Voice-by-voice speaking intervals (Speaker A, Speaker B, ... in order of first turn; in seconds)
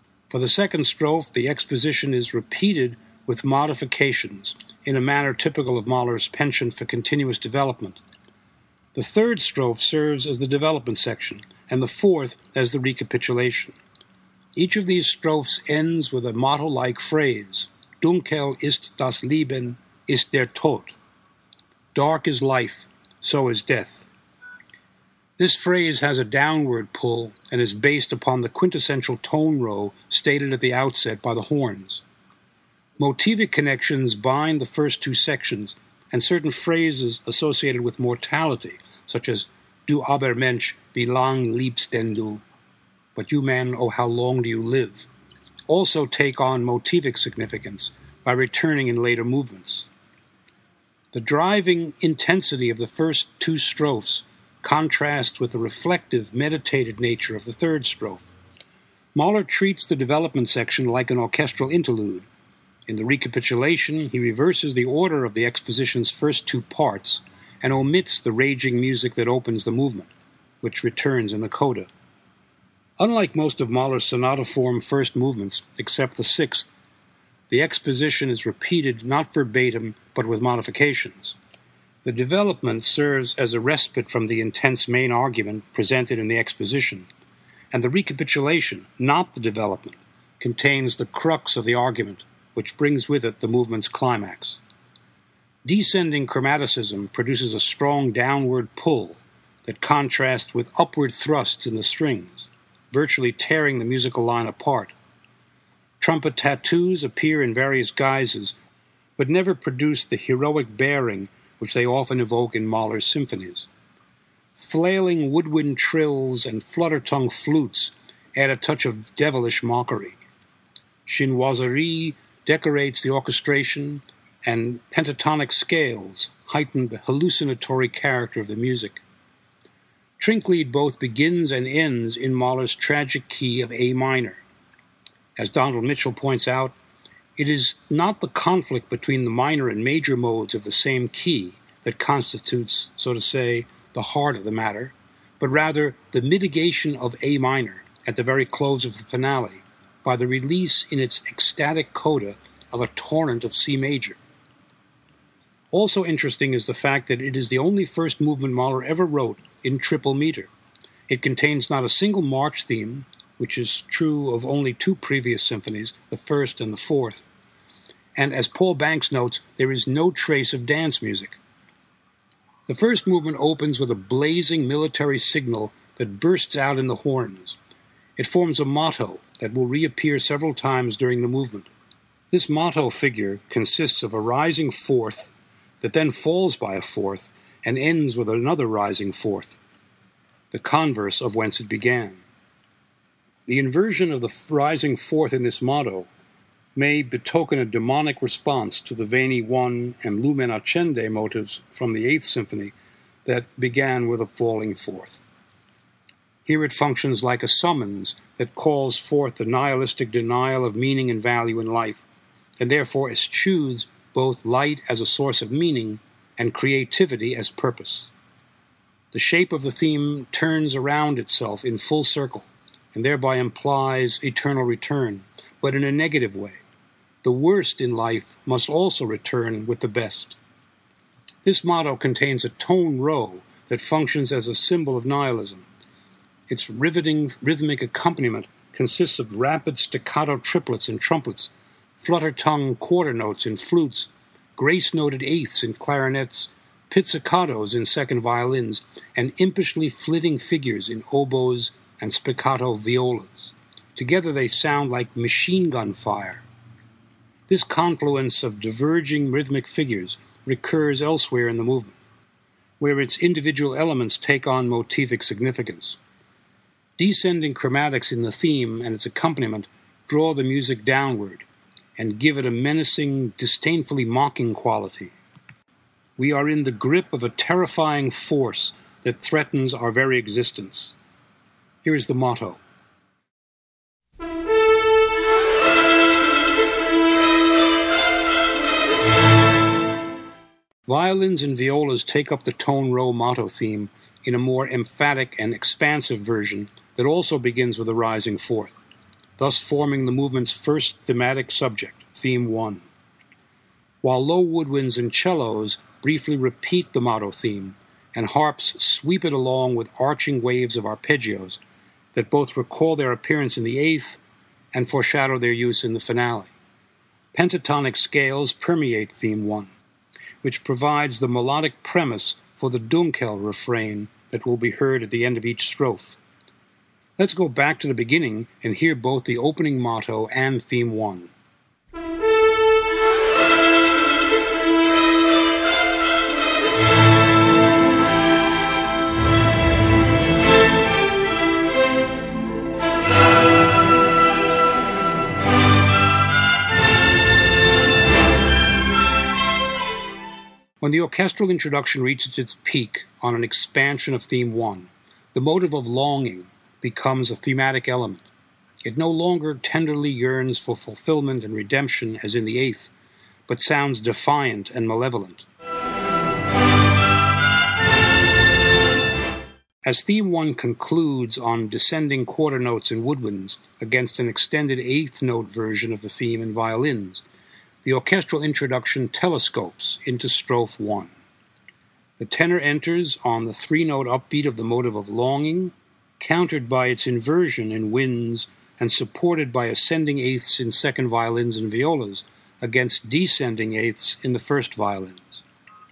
Speaker A: 0.3-8.0, 8.9-13.8, 14.5-20.9, 21.9-24.1, 25.4-32.0, 33.0-42.4, 43.1-45.1, 45.7-49.9, 51.1-58.3, 59.1-62.3, 62.9-70.1, 70.6-71.9, 73.0-76.7, 77.5-81.3, 82.0-87.1, 87.7-94.6, 95.6-104.9, 106.0-108.5, 109.2-113.7, 114.5-120.2, 121.0-129.0, 130.2-134.4, 135.4-136.7, 137.4-154.2, 155.7-160.5, 161.1-167.3, 168.2-171.4, 172.7-177.6, 178.2-181.7, 182.3-189.6, 190.5-192.2, 193.5-196.1, 196.8-202.7, 203.2-205.2, 206.4-212.0, 212.6-218.1, 219.1-226.6, 227.2-230.4, 231.4-235.6, 236.5-256.4, 257.5-262.0, 262.8-266.0, 267.0-271.4, 272.0-275.1, 276.2-280.9, 281.8-282.6, 290.9-298.8, 299.4-302.8, 304.0-311.6, 312.1-314.2, 314.7-316.5, 317.3-319.7, 320.4-326.2, 327.2-331.3, 350.8-358.2, 358.8-362.9, 363.5-365.4, 369.8-377.2, 377.8-381.1, 382.2-395.4